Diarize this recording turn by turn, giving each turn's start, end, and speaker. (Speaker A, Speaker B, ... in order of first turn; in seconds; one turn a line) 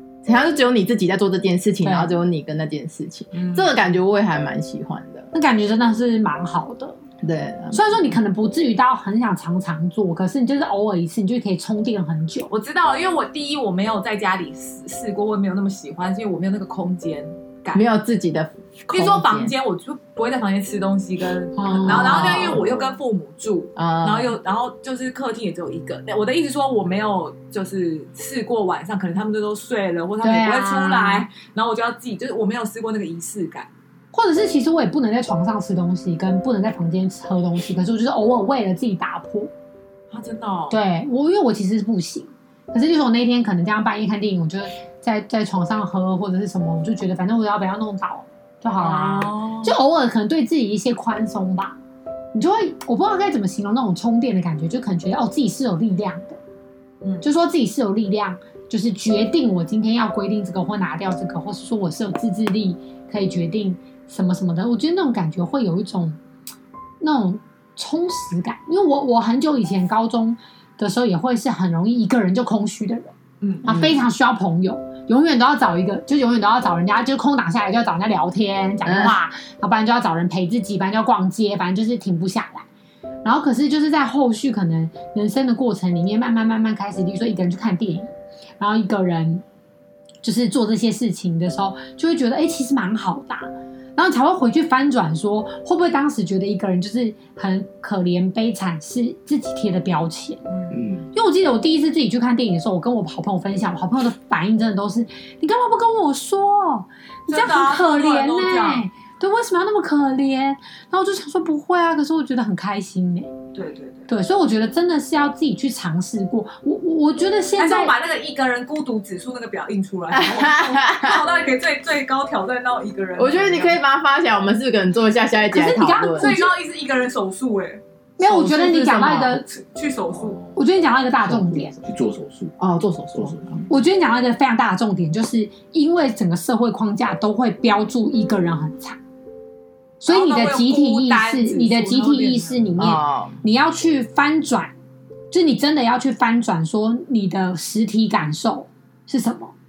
Speaker A: 0.2-5.3
Speaker B: 1.8-2.1
Speaker C: 3.3-3.8
Speaker B: 5.3-7.0
Speaker A: 7.2-8.0
Speaker B: 7.7-12.5
Speaker C: 12.5-17.8
Speaker A: 17.7-19.5
Speaker C: 18.9-33.7
Speaker B: 21.6-22.5
Speaker A: 21.8-22.6
Speaker D: 22.4-23.0
Speaker A: 23.8-24.3
Speaker B: 30.2-31.3
Speaker B: 34.1-39.5
Speaker C: 40.1-40.8
Speaker B: 40.7-51.8
Speaker C: 48.8-49.8
Speaker B: 52.3-56.4
Speaker B: 57.2-66.2
Speaker B: 67.0-82.7
Speaker A: 73.6-74.0
Speaker A: 78.8-79.2
Speaker B: 83.2-89.4
Speaker B: 90.2-100.4
Speaker C: 100.5-100.8
Speaker D: 100.7-101.1
Speaker B: 101.1-113.3
Speaker C: 107.3-108.8
Speaker C: 113.5-114.1
Speaker B: 114.1-117.9
Speaker C: 117.6-123.8
Speaker A: 120.1-121.2
Speaker A: 123.2-126.3
Speaker B: 125.5-126.5
Speaker C: 126.2-127.8
Speaker A: 128.2-129.4
Speaker B: 128.2-129.5
Speaker C: 129.5-130.4
Speaker D: 130.1-130.6
Speaker B: 130.6-131.8
Speaker D: 131.2-132.5
Speaker A: 132.6-133.6
Speaker D: 133.1-133.6
Speaker B: 133.7-139.0
Speaker B: 140.0-144.7
Speaker C: 140.1-142.7
Speaker A: 142.8-143.4
Speaker B: 145.3-149.5